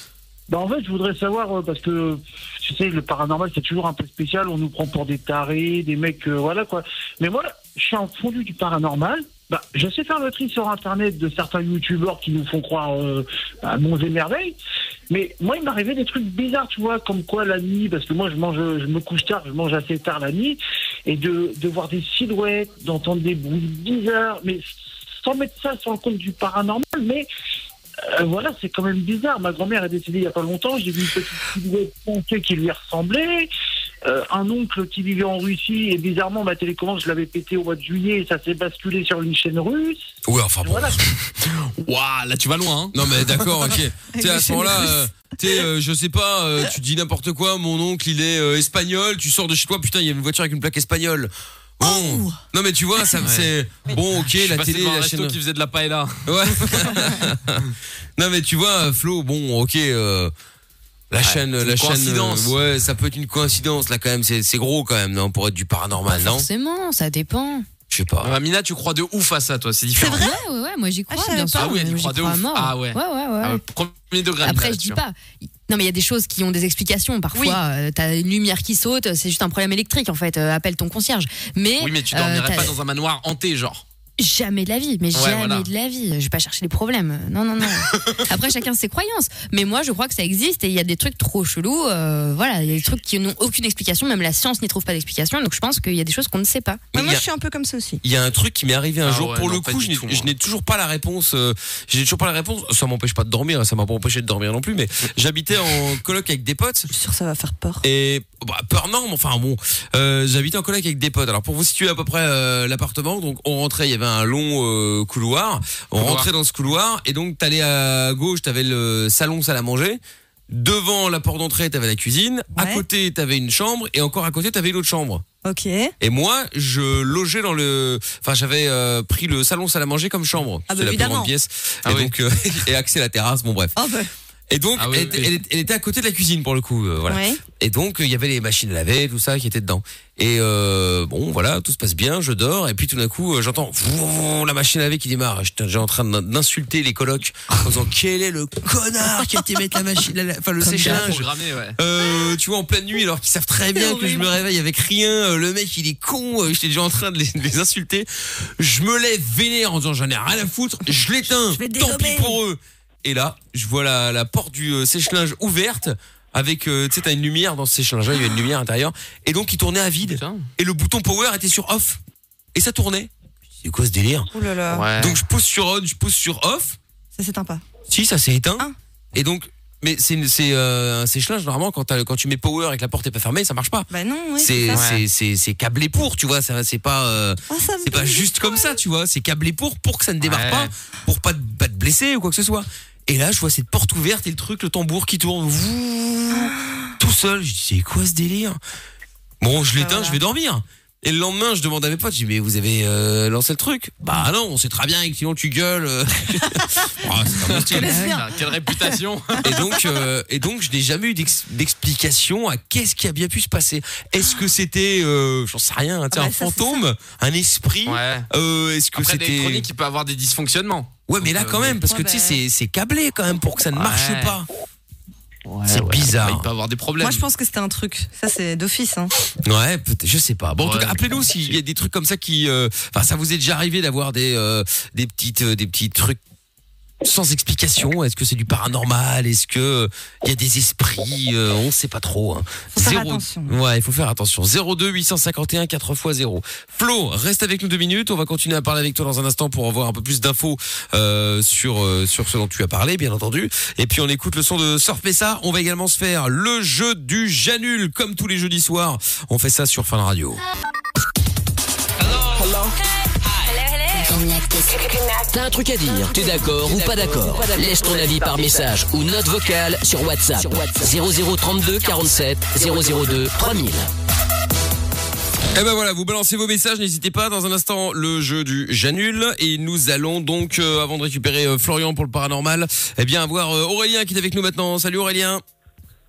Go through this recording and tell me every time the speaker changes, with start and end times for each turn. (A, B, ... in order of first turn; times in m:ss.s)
0:00.5-0:14.6 A
0:15.1-0:24.7 A
0:25.2-0:27.3 A
0:28.1-0:33.5 A
0:34.0-0:40.0 A
0:40.2-0:41.0 B
0:40.6-0:41.0 A
0:41.4-0:43.0 C
0:42.9-0:55.4 B
0:44.1-0:45.0 D
0:51.8-0:52.4 D
0:53.2-0:53.5 C
0:54.2-0:57.1 C
0:56.2-1:00.3 B
1:01.1-1:06.5 B
1:01.2-1:02.5 C
1:06.1-1:07.6 E
1:07.9-1:08.3 B
1:08.2-1:10.3 C
1:10.0-1:10.4 D
1:10.1-1:13.6 E
1:11.1-1:11.7 D
1:11.5-1:15.0 C
1:14.4-1:22.7 E
1:17.3-1:17.6 D
1:21.8-1:23.8 C
1:24.2-1:36.8 E
1:25.1-1:25.7 C
1:36.9-1:37.2 B
1:36.9-1:38.0 D
1:38.0-1:46.9 B
1:39.0-1:40.3 C
1:46.9-1:47.8 D
1:47.8-2:05.2 B
1:56.0-1:56.3 C
2:02.6-2:02.8 D
2:05.4-2:05.9 D
2:06.0-2:13.7 B
2:10.7-2:11.3 D
2:11.8-2:12.1 C
2:13.8-2:14.1 D
2:14.5-2:52.0 B
2:14.8-2:15.4 C
2:17.1-2:17.4 D
2:29.1-2:29.6 D
2:30.6-2:31.0 D
2:30.8-2:31.8 C
2:33.7-2:34.3 D
2:41.5-2:42.4 D
2:50.0-2:50.5 C
2:52.5-2:53.1 B
2:53.6-2:54.3 B
2:54.3-2:54.9 D
2:54.7-2:55.2 C
2:54.9-2:56.8 B
2:57.2-2:57.6 D
2:57.9-3:18.6 B
3:03.9-3:04.8 D
3:04.7-3:05.0 C
3:07.5-3:08.8 D
3:10.2-3:10.7 C
3:19.4-3:28.1 B
3:19.8-3:20.2 D
3:27.5-3:29.7 C
3:27.6-3:28.9 D
3:29.4-3:39.7 B
3:36.1-3:36.8 D
3:37.8-3:38.3 C
3:39.0-3:41.8 C
3:41.1-3:44.5 B
3:41.8-3:42.4 D
3:43.7-3:44.4 C
3:45.5-3:47.2 C
3:45.7-3:46.5 B
3:47.0-3:49.1 D
3:49.4-3:56.2 B
3:50.6-3:51.6 C
3:57.0-4:20.4 B
4:02.7-4:03.6 D
4:23.9-4:33.9 F
4:35.5-4:45.4 B